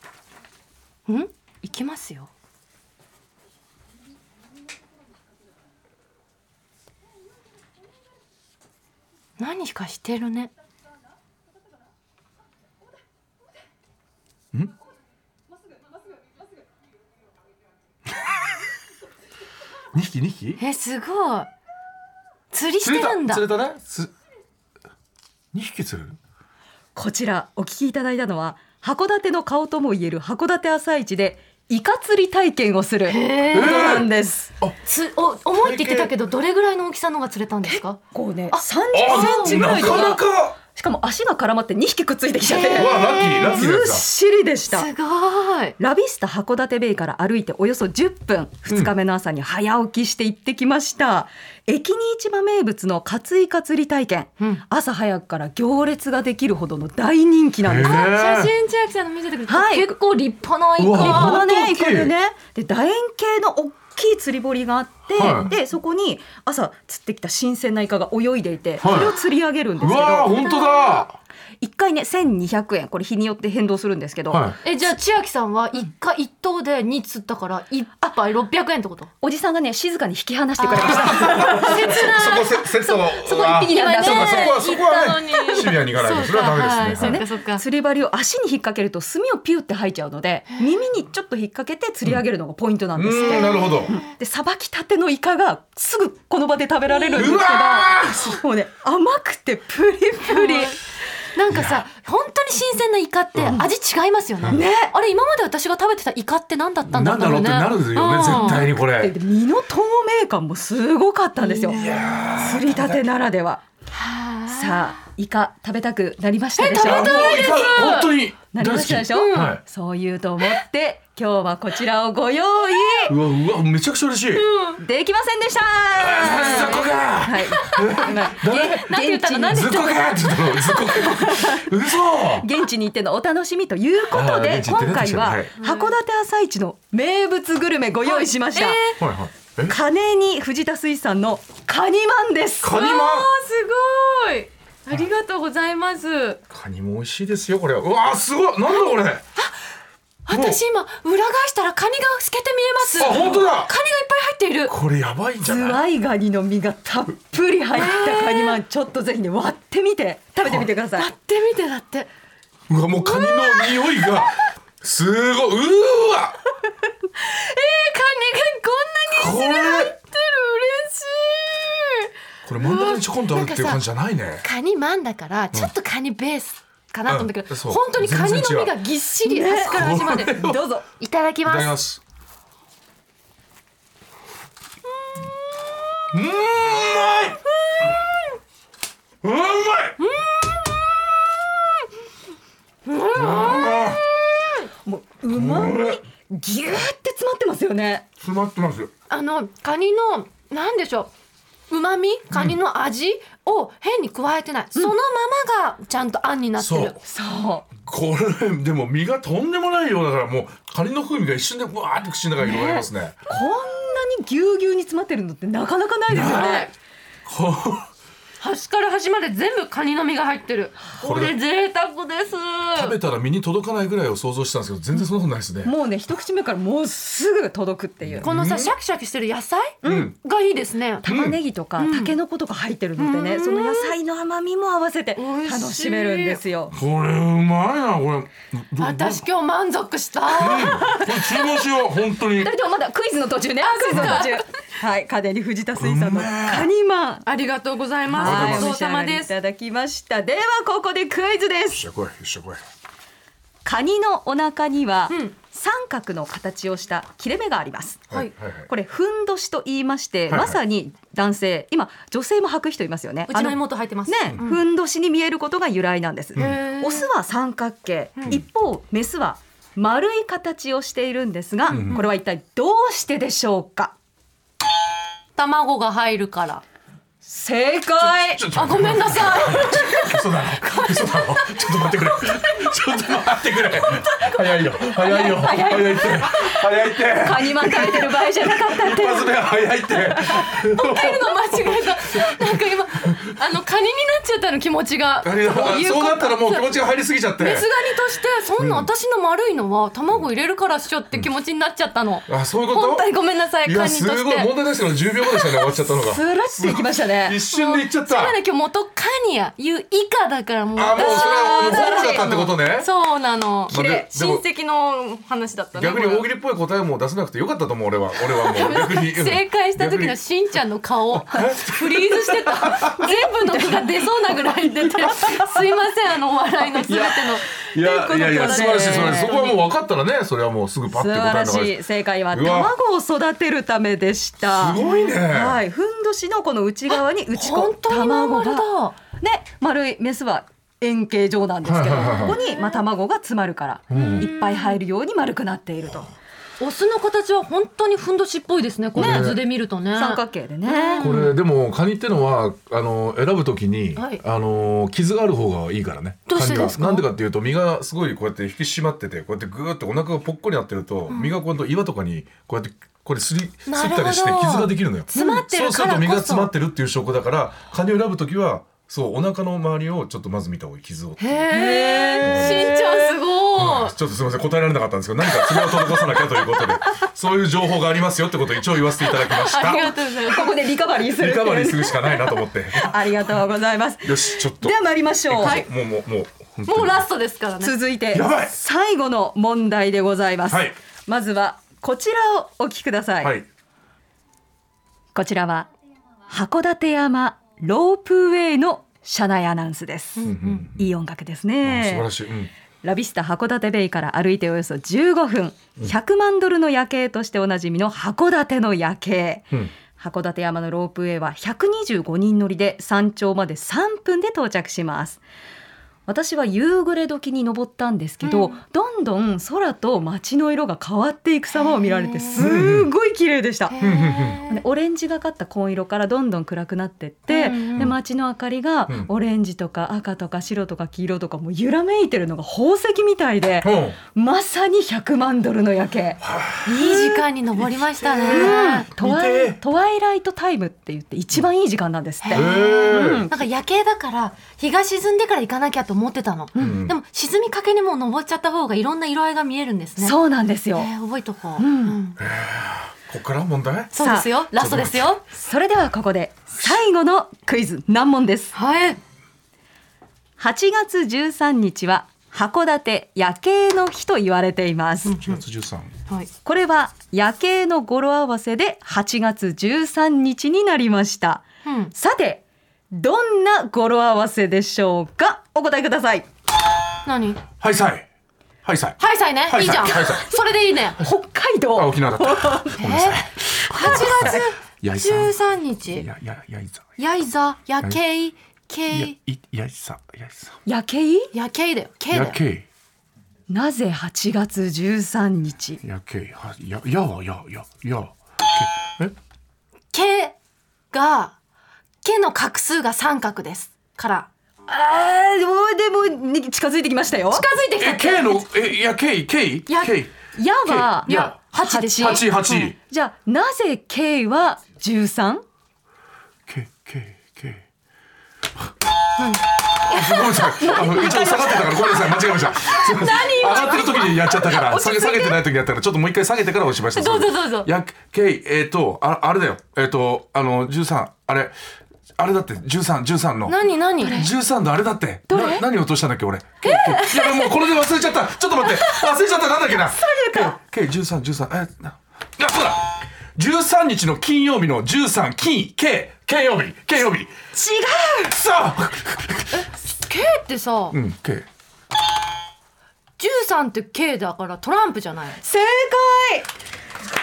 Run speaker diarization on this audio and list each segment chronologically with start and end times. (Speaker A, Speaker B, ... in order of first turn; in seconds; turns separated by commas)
Speaker A: 1.1-2.3, Speaker A: 9.4-10.5, Speaker B: 19.9-20.6, Speaker A: 20.6-21.5, Speaker A: 22.5-23.4, Speaker B: 22.8-24.1, Speaker B: 25.5-26.2, Speaker C: 26.9-34.5, Speaker A: 33.1-34.0, Speaker B: 33.5-34.8, Speaker A: 34.8-38.0, Speaker B: 35.5-36.1, Speaker C: 37.6-44.9, Speaker A: 38.5-40.2, Speaker B: 38.9-40.6, Speaker A: 42.5-43.6, Speaker B: 42.6-44.0, Speaker A: 44.7-45.8, Speaker C: 45.8-58.1, Speaker B: 48.7-48.9, Speaker B: 57.6-58.5, Speaker A: 57.8-61.5, Speaker C: 59.5-60.0, Speaker B: 60.8-62.1, Speaker C: 61.0-70.4, Speaker B: 65.1-65.5, Speaker B: 68.8-69.1, Speaker B: 69.8-71.2, Speaker A: 70.3-71.0, Speaker C: 71.6-74.5, Speaker B: 74.3-74.6, Speaker A: 74.6-79.1, Speaker C: 79.2-82.1, Speaker A: 80.6-87.6, Speaker B: 80.8-87.2, Speaker C: 83.2-85.8, Speaker C: 87.0-100.8, Speaker B: 93.0-93.9, Speaker A: 93.2-94.1, Speaker A: 96.9-97.8, Speaker B: 97.1-98.3, Speaker A: 100.3-100.8, Speaker A: 101.3-108.7, Speaker B: 101.5-101.8, Speaker B: 103.3-103.6, Speaker C: 104.5-104.9, Speaker B: 106.9-109.1, Speaker C: 108.3-111.8, Speaker A: 111.4-112.1, Speaker B: 111.7-113.0, Speaker C: 112.3-113.6, Speaker A: 113.9-114.9, Speaker C: 114.5-117.9, Speaker A: 116.6-118.2, Speaker B: 116.8-119.6, Speaker C: 118.5-123.2, Speaker A: 119.1-119.6, Speaker B: 123.0-124.5, Speaker A: 124.3-124.8, Speaker C: 124.8-129.8, Speaker B: 125.9-128.9, Speaker A: 126.3-127.0, Speaker A: 127.9-131.2, Speaker B: 129.5-132.5, Speaker C: 131.1-131.7, Speaker C: 132.2-138.8, Speaker B: 134.1-135.5, Speaker A: 135.6-135.9, Speaker A: 138.0-139.0, Speaker B: 139.0-139.8, Speaker C: 139.7-142.8, Speaker B: 142.6-143.3, Speaker A: 142.6-146.4, Speaker B: 146.5-149.2, Speaker A: 150.2-154.7, Speaker B: 150.3-150.6, Speaker C: 152.9-153.4, Speaker B: 153.0-153.7, Speaker B: 154.7-155.8, Speaker C: 155.4-161.1, Speaker A: 157.7-158.6, Speaker A: 160.9-162.1, Speaker B: 162.7-166.4, Speaker A: 163.0-164.1, Speaker A: 167.2-173.8, Speaker B: 169.1-169.9, Speaker B: 172.4-174.4, Speaker A: 174.4-180.4, Speaker B: 177.1-178.8, Speaker C: 179.2-180.8, Speaker B: 179.7-180.6, Speaker A: 181.0-181.8, Speaker B: 181.4-182.0, Speaker B: 186.1-187.4, Speaker B: 189.2-190.0, Speaker A: 190.0-191.1, Speaker A: 192.8-194.7, Speaker B: 193.1-194.0, Speaker C: 194.8-198.1, Speaker B: 195.3-196.0, Speaker B: 198.2-198.9, Speaker A: 199.1-201.1, Speaker A: 201.7-207.0, Speaker B: 202.3-202.6, Speaker B: 206.6-207.0, Speaker C: 207.0-207.7, Speaker B: 207.8-213.2, Speaker C: 212.5-216.7, Speaker B: 216.1-216.6, Speaker A: 216.2-216.7, Speaker B: 217.2-217.9, Speaker A: 218.4-222.9, Speaker B: 221.0-221.4, Speaker B: 222.7-225.7, Speaker C: 225.6-228.3, Speaker B: 228.0-228.7, Speaker A: 228.2-231.0, Speaker C: 229.8-230.1, Speaker B: 229.8-230.2, Speaker C: 231.0-236.7, Speaker B: 231.0-231.4, Speaker A: 231.8-232.2, Speaker A: 233.0-233.9, Speaker A: 235.2-236.4, Speaker B: 236.7-239.2, Speaker A: 238.8-241.0, Speaker B: 240.3-242.5, Speaker C: 240.5-241.4, Speaker C: 242.3-247.2, Speaker A: 243.6-244.4, Speaker B: 243.9-244.2, Speaker B: 245.8-246.7, Speaker A: 247.2-249.3, Speaker C: 248.1-251.8, Speaker B: 248.2-248.7, Speaker B: 251.7-252.6, Speaker C: 253.6-273.9, Speaker A: 255.1-255.3, Speaker B: 258.1-258.7, Speaker B: 260.3-260.6, Speaker A: 263.3-264.6, Speaker B: 266.4-266.6, Speaker A: 266.4-267.1, Speaker B: 271.7-272.0, Speaker A: 271.8-272.1, Speaker A: 275.4-276.6, Speaker C: 277.2-278.5, Speaker B: 278.1-293.3, Speaker A: 278.5-281.3, Speaker A: 282.2-282.8, Speaker A: 283.8-285.6, Speaker C: 285.0-289.4, Speaker A: 290.4-296.7, Speaker B: 295.2-297.7, Speaker A: 297.4-304.6, Speaker B: 298.6-298.9, Speaker B: 302.3-303.1, Speaker B: 303.6-308.4, Speaker A: 305.2-305.7, Speaker C: 306.0-307.4, Speaker A: 307.5-316.3, Speaker B: 310.8-312.9, Speaker C: 310.9-312.4, Speaker B: 313.7-314.4, Speaker B: 315.8-320.2, Speaker A: 318.3-327.5, Speaker B: 321.1-323.1, Speaker C: 323.0-323.9, Speaker B: 324.8-325.5, Speaker B: 326.8-332.7, Speaker C: 327.8-329.4, Speaker A: 328.1-329.6, Speaker C: 330.9-346.1, Speaker B: 334.5-335.6, Speaker A: 334.7-335.2, Speaker A: 337.3-339.0, Speaker B: 341.6-342.4, Speaker A: 342.2-342.8, Speaker B: 343.9-344.3, Speaker A: 343.9-344.8, Speaker A: 346.6-351.3, Speaker B: 348.9-349.4, Speaker C: 349.0-349.4, Speaker C: 349.9-351.1, Speaker B: 351.0-371.4, Speaker A: 353.9-354.2, Speaker A: 356.3-357.1, Speaker A: 361.1-361.4, Speaker A: 363.7-366.5, Speaker C: 365.1-365.4, Speaker A: 371.2-373.9, Speaker C: 371.5-373.1, Speaker B: 372.2-372.7, Speaker B: 373.6-380.0, Speaker A: 379.1-380.6, Speaker C: 379.7-385.6, Speaker B: 381.0-383.4, Speaker B: 384.0-387.1, Speaker A: 385.4-385.7, Speaker A: 386.6-387.8, Speaker C: 387.6-393.4, Speaker B: 388.1-388.5, Speaker B: 390.5-390.8, Speaker B: 393.2-393.4, Speaker C: 395.1-395.7, Speaker C: 396.3-402.1, Speaker A: 400.2-400.7, Speaker B: 400.2-400.9, Speaker B: 401.6-402.5, Speaker C: 402.8-415.2, Speaker C: 416.1-423.8, Speaker A: 418.2-418.6, Speaker A: 421.6-422.5, Speaker B: 422.4-422.9, Speaker A: 423.7-424.6, Speaker B: 423.8-424.4, Speaker C: 424.4-437.2, Speaker A: 427.3-427.9, Speaker B: 433.6-434.0, Speaker B: 436.2-436.7, Speaker A: 436.7-438.9, Speaker B: 438.0-439.6, Speaker C: 438.3-443.4, Speaker A: 442.2-450.2, Speaker B: 442.3-443.2, Speaker C: 446.5-446.8, Speaker B: 446.6-446.9, Speaker C: 450.0-450.9, Speaker A: 450.7-452.2, Speaker C: 451.6-452.0, Speaker B: 452.2-453.9, Speaker A: 453.9-455.2, Speaker C: 454.0-454.3, Speaker B: 454.5-455.1, Speaker C: 455.3-458.6, Speaker A: 458.5-459.0, Speaker C: 460.4-465.3, Speaker B: 465.1-465.9, Speaker A: 465.1-465.4, Speaker C: 466.4-476.3, Speaker A: 471.6-471.9, Speaker A: 477.1-477.4, Speaker B: 477.6-478.1, Speaker B: 478.6-480.3, Speaker A: 479.0-481.0, Speaker C: 481.0-482.8, Speaker B: 481.7-485.4, Speaker A: 482.8-486.1, Speaker C: 483.7-484.5, Speaker B: 485.9-486.9, Speaker A: 487.0-489.1, Speaker B: 488.9-490.5, Speaker C: 490.6-491.3, Speaker A: 491.3-492.4, Speaker B: 492.1-492.6, Speaker C: 493.5-495.8, Speaker B: 495.8-499.1, Speaker A: 499.9-500.4, Speaker A: 500.9-501.4, Speaker A: 502.0-504.3, Speaker C: 504.7-507.5, Speaker A: 507.3-508.4, Speaker B: 507.8-511.4, Speaker A: 509.7-509.9, Speaker C: 510.3-515.4, Speaker A: 511.1-512.3, Speaker B: 511.9-512.8, Speaker B: 516.5-517.6, Speaker A: 519.2-525.4, Speaker B: 519.8-531.5, Speaker C: 520.6-521.6, Speaker A: 526.9-527.7, Speaker B: 532.2-547.3, Speaker A: 533.5-534.3, Speaker C: 535.3-535.6, Speaker C: 536.6-537.1, Speaker A: 536.7-537.4, Speaker C: 539.8-540.5, Speaker C: 547.5-548.4, Speaker B: 548.2-549.6, Speaker A: 549.5-551.0, Speaker B: 550.9-551.5, Speaker A: 553.2-555.4, Speaker C: 555.4-556.5